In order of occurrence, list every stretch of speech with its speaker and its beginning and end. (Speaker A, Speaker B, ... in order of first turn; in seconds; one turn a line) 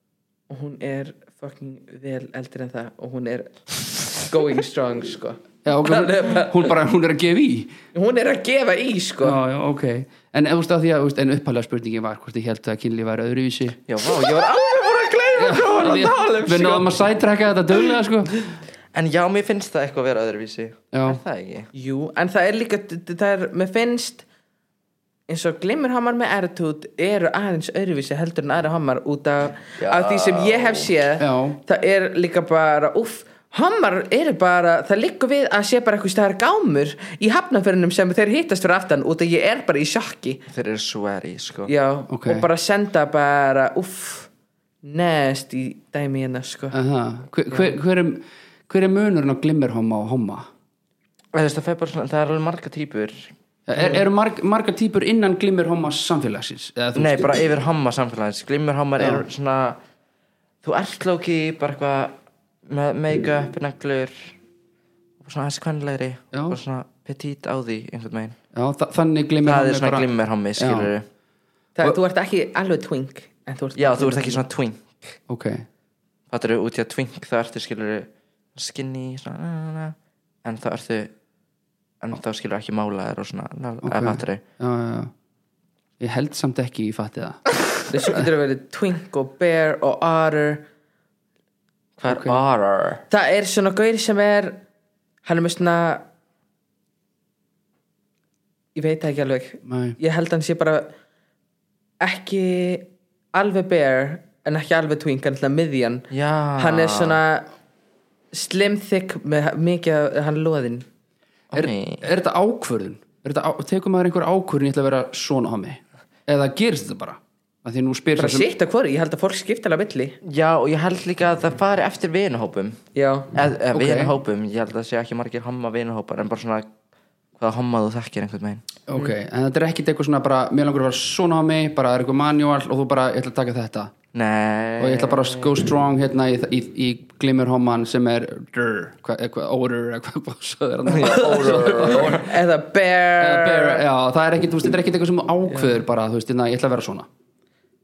Speaker A: 0.5-6.8
Speaker B: 5.7-7.7
Speaker A: 7.9-9.4
Speaker B: 9.2-13.8
Speaker C: 13.9-16.9
Speaker B: 15.4-18.5
Speaker A: 15.7-16.5
Speaker C: 18.9-21.7
Speaker B: 20.9-21.2
Speaker A: 21.7-24.2
Speaker A: 25.3-40.4
Speaker C: 29.8-30.9
Speaker B: 31.2-31.6
Speaker C: 40.5-41.7
Speaker A: 41.7-44.3
Speaker B: 42.1-42.5
Speaker A: 44.8-46.7
Speaker B: 46.7-50.5
Speaker C: 51.3-53.3
Speaker B: 53.7-57.3
Speaker C: 57.0-59.8
Speaker B: 59.0-59.2
Speaker C: 60.6-64.4
Speaker C: 65.2-68.4
Speaker B: 66.3-66.6
Speaker B: 68.5-70.9
Speaker C: 69.4-71.0
Speaker A: 71.8-74.4
Speaker C: 73.8-74.8
Speaker B: 75.3-75.7
Speaker C: 76.3-81.1
Speaker C: 82.0-84.4
Speaker B: 83.8-85.1
Speaker B: 86.0-87.6
Speaker A: 87.9-90.7
Speaker C: 92.0-93.0
Speaker B: 92.1-92.4
Speaker A: 93.1-94.6
Speaker A: 95.2-96.0
Speaker A: 98.8-100.9
Speaker B: 99.7-100.0
Speaker A: 102.0-106.1
Speaker C: 106.1-107.2
Speaker A: 106.6-107.5
Speaker A: 108.3-110.8
Speaker C: 111.5-112.1
Speaker B: 111.5-118.5
Speaker A: 118.2-120.2
Speaker C: 120.2-122.8
Speaker A: 123.0-123.3
Speaker C: 123.3-126.7
Speaker B: 123.7-124.1
Speaker C: 127.4-128.6
Speaker B: 128.9-133.9
Speaker C: 134.1-135.6
Speaker B: 134.8-142.2
Speaker C: 140.9-142.3
Speaker A: 141.0-143.8
Speaker B: 143.2-147.1
Speaker A: 145.5-145.8